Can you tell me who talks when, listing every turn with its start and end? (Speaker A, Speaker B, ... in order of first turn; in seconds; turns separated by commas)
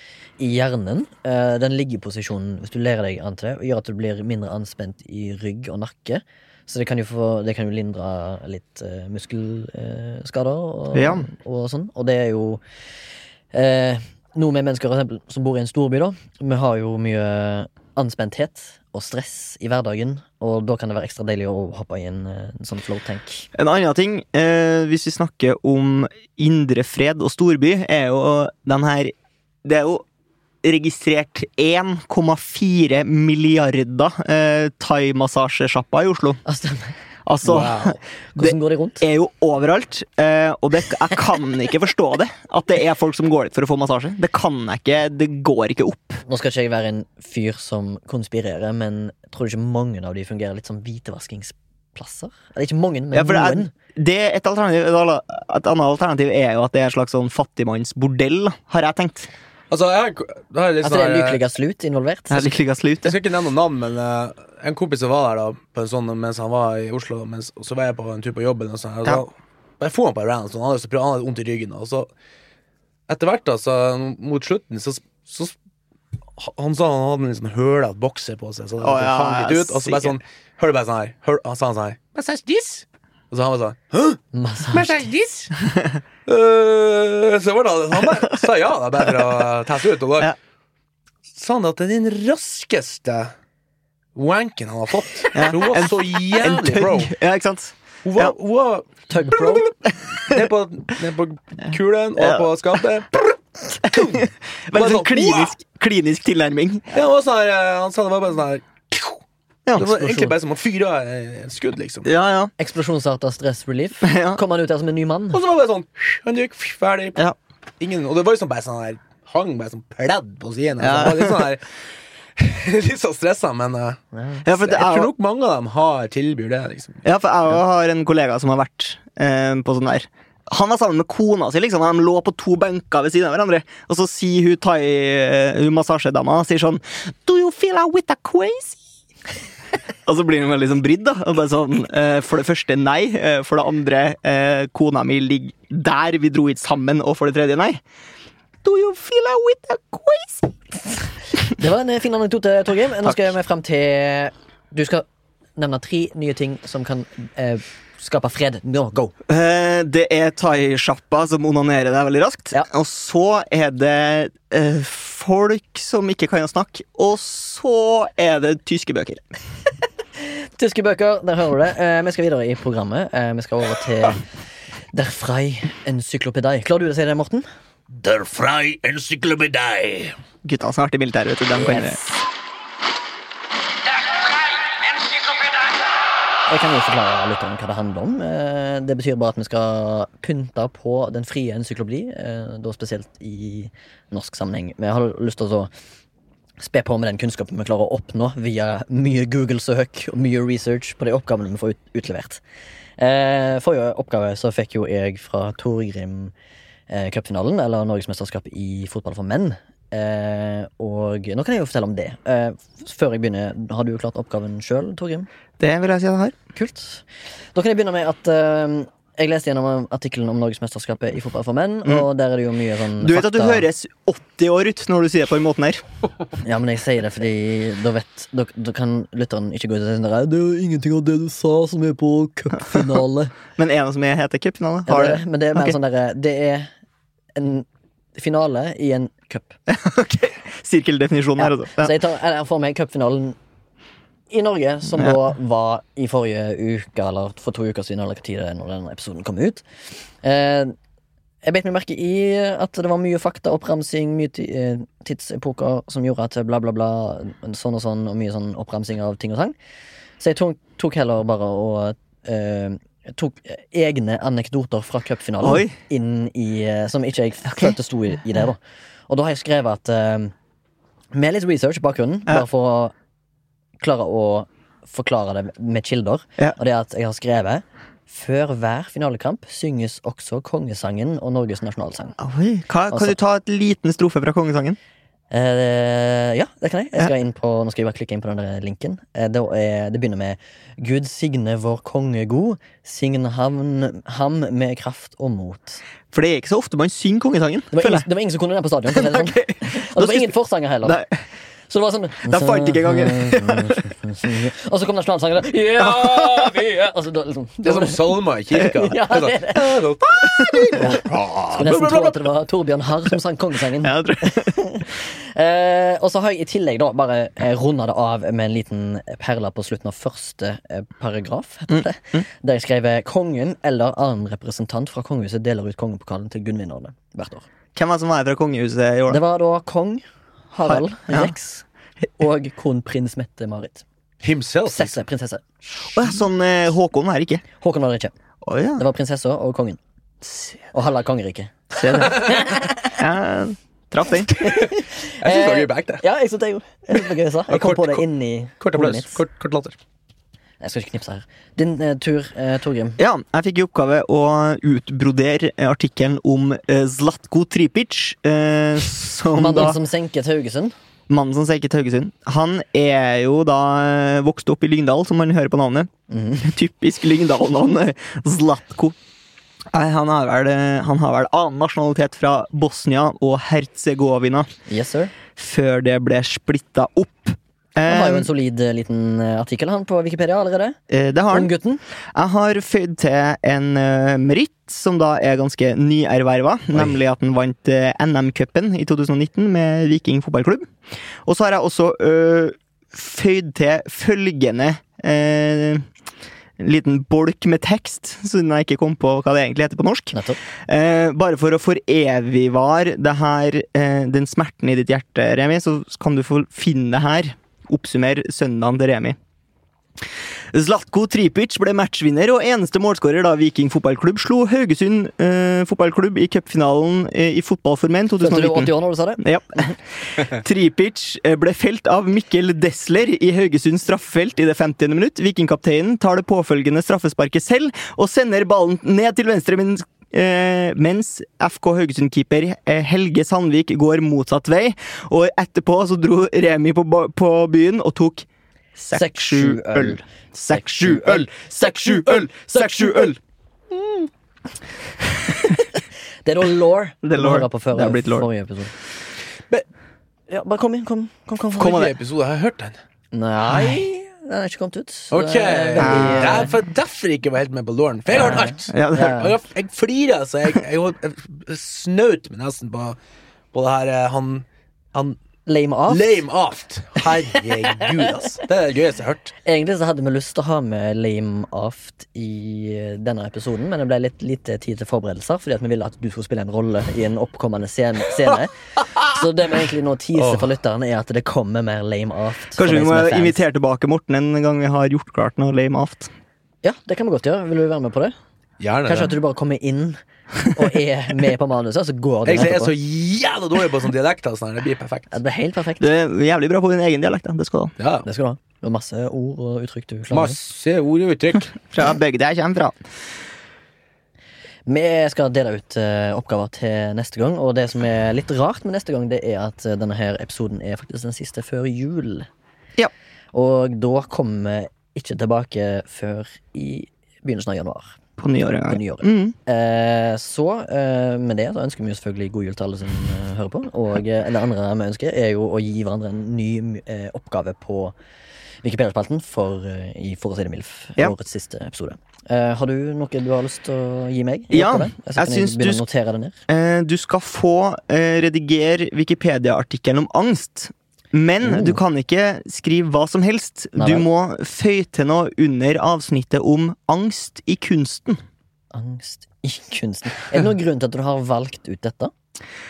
Speaker A: 0.4-12.6, Speaker B: 10.9-11.3, Speaker A: 13.5-23.5, Speaker B: 23.6-29.1, Speaker B: 29.6-30.0, Speaker B: 30.6-36.4, Speaker A: 36.5-39.0, Speaker B: 37.3-46.2, Speaker A: 46.3-53.7, Speaker B: 53.1-59.3, Speaker C: 59.7-61.4, Speaker A: 60.8-62.5, Speaker B: 62.3-63.2, Speaker C: 63.0-72.1, Speaker C: 73.1-75.6, Speaker C: 76.4-85.5, Speaker B: 78.8-80.2, Speaker A: 84.3-85.1, Speaker C: 86.3-90.3, Speaker C: 91.3-93.3, Speaker C: 94.2-97.1, Speaker B: 95.3-98.3, Speaker C: 98.0-98.9, Speaker A: 99.1-99.7, Speaker B: 99.4-100.5, Speaker C: 100.3-105.5, Speaker B: 102.2-102.8, Speaker B: 103.8-106.9, Speaker C: 106.9-109.2, Speaker B: 109.7-110.1, Speaker C: 109.8-112.1, Speaker B: 112.1-112.5, Speaker A: 112.6-115.4, Speaker B: 114.0-114.4, Speaker C: 115.3-117.2, Speaker C: 117.8-121.7, Speaker B: 120.8-121.5, Speaker C: 122.4-124.0, Speaker A: 124.1-124.5, Speaker B: 124.5-125.1, Speaker C: 124.7-127.0, Speaker B: 127.0-138.8, Speaker B: 140.1-147.8, Speaker B: 148.6-150.5, Speaker A: 151.5-155.1, Speaker A: 155.6-159.1, Speaker B: 159.3-169.2, Speaker A: 170.2-174.2, Speaker A: 174.9-177.5, Speaker C: 177.9-180.2, Speaker B: 180.4-182.0, Speaker A: 181.6-182.2, Speaker A: 186.5-195.7, Speaker A: 196.6-202.4, Speaker A: 203.0-206.3, Speaker A: 206.9-215.3, Speaker B: 215.6-216.3, Speaker A: 216.6-223.7, Speaker B: 223.0-225.8, Speaker A: 226.4-233.3, Speaker B: 233.5-235.8, Speaker A: 234.9-236.7, Speaker A: 237.4-239.6, Speaker B: 239.7-241.9, Speaker A: 241.4-243.4, Speaker A: 244.3-249.7, Speaker A: 250.2-250.8, Speaker A: 251.4-259.6, Speaker A: 260.2-270.3, Speaker B: 265.4-265.8, Speaker B: 267.5-267.8, Speaker A: 271.1-272.9, Speaker A: 273.8-282.2, Speaker B: 282.2-284.8, Speaker A: 285.3-295.8, Speaker B: 296.1-298.1, Speaker A: 297.7-301.0, Speaker B: 298.9-301.1, Speaker A: 301.7-308.1, Speaker B: 302.2-303.9, Speaker B: 305.9-306.3, Speaker C: 307.6-312.2, Speaker A: 308.6-309.8, Speaker B: 310.4-311.1, Speaker A: 310.7-327.5, Speaker B: 313.8-314.7, Speaker B: 321.7-322.2, Speaker B: 327.8-329.2, Speaker A: 329.1-331.6, Speaker B: 330.7-331.3, Speaker A: 332.2-333.9, Speaker C: 334.2-335.0, Speaker A: 334.7-335.4, Speaker B: 335.9-337.4, Speaker A: 337.6-338.1, Speaker B: 338.4-338.8, Speaker A: 338.8-339.8, Speaker A: 340.7-343.0, Speaker B: 341.7-344.4, Speaker A: 344.3-349.2, Speaker C: 344.4-346.0, Speaker C: 347.5-348.0, Speaker C: 348.6-349.8, Speaker A: 350.6-353.0, Speaker B: 353.0-359.8, Speaker A: 359.4-360.7, Speaker B: 361.1-365.9, Speaker A: 366.1-366.5, Speaker B: 366.4-368.9, Speaker B: 369.7-374.5, Speaker A: 374.7-375.1, Speaker B: 375.4-378.3, Speaker A: 377.9-380.8, Speaker B: 380.9-381.5, Speaker A: 381.3-381.8, Speaker B: 382.1-390.7, Speaker B: 391.2-395.9, Speaker B: 396.6-409.2, Speaker A: 400.1-400.4, Speaker B: 410.5-438.3, Speaker A: 418.2-419.8, Speaker B: 438.8-443.2, Speaker A: 438.9-443.1, Speaker A: 445.3-448.7, Speaker B: 447.0-448.3, Speaker A: 450.3-451.9, Speaker C: 451.6-452.8, Speaker B: 451.6-451.9, Speaker A: 453.1-456.5, Speaker B: 453.5-453.8, Speaker C: 455.1-463.0, Speaker B: 455.8-456.5, Speaker A: 458.1-459.4, Speaker B: 458.3-459.3, Speaker C: 463.5-465.2, Speaker A: 465.5-466.2, Speaker C: 465.9-469.4, Speaker A: 469.4-483.4, Speaker C: 480.2-480.4, Speaker B: 482.6-486.1, Speaker A: 486.6-488.1, Speaker C: 488.6-489.1, Speaker A: 488.9-492.7, Speaker C: 492.2-495.1, Speaker A: 495.1-495.9, Speaker B: 495.8-497.7, Speaker C: 497.8-498.1, Speaker A: 498.1-500.4, Speaker C: 500.1-501.5, Speaker B: 501.7-502.8, Speaker A: 504.7-512.3, Speaker A: 513.3-518.0, Speaker B: 518.2-519.4, Speaker A: 518.7-528.0, Speaker A: 528.6-536.4, Speaker B: 534.5-535.8, Speaker B: 536.5-548.2, Speaker A: 541.4-541.8, Speaker A: 543.8-544.1, Speaker A: 548.7-552.1